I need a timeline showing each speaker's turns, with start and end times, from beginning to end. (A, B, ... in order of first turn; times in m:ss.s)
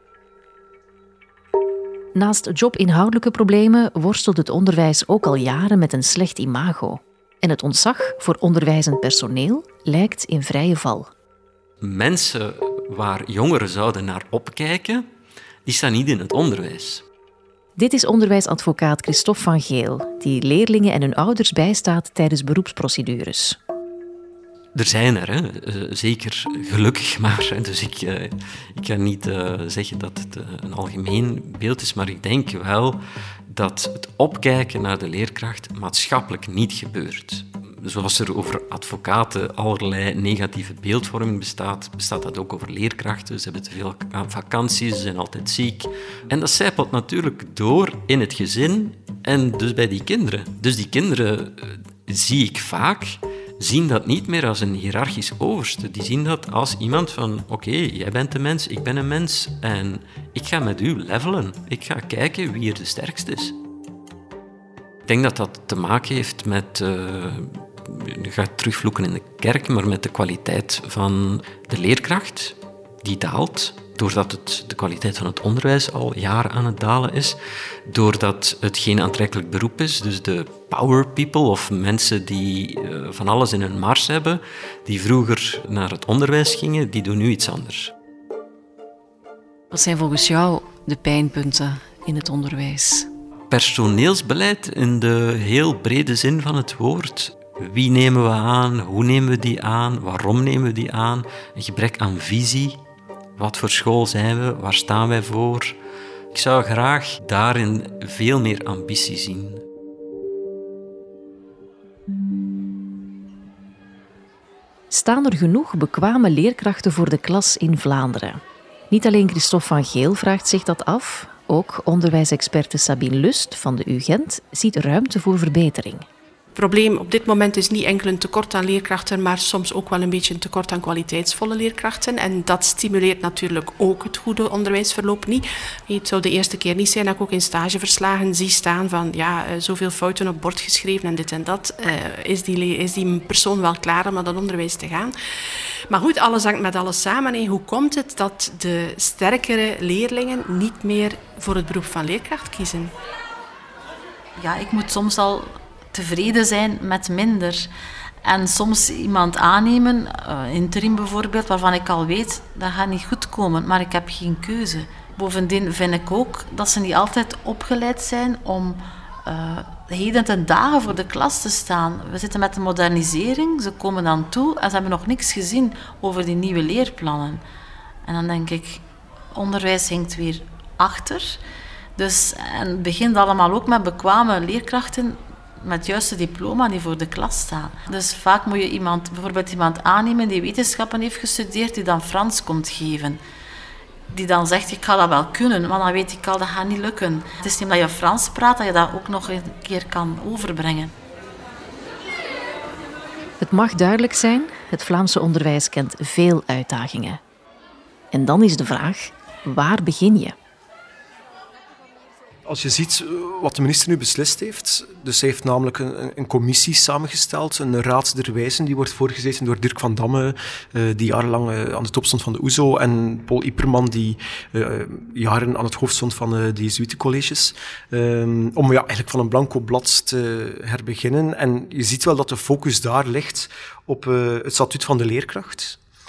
0:02.1-0:11.1 A
0:11.8-0:15.1 B
0:15.6-0:17.0 B
0:17.8-0:23.6 A
0:24.7-1:03.6 B
1:05.0-1:27.9 B
1:29.7-1:33.1 A
1:33.5-1:42.8 B
1:43.4-1:45.8 B
1:46.3-1:49.6 B
1:54.9-2:06.0 A
2:06.6-2:25.1 C
2:25.9-2:32.9 C
2:34.4-2:37.7 D
2:38.2-2:57.4 D
2:58.0-3:01.4 D
3:02.0-3:13.2 D
3:14.1-3:20.9 D
3:23.4-3:27.2 A
3:28.1-3:30.3 A
3:32.4-3:55.8 E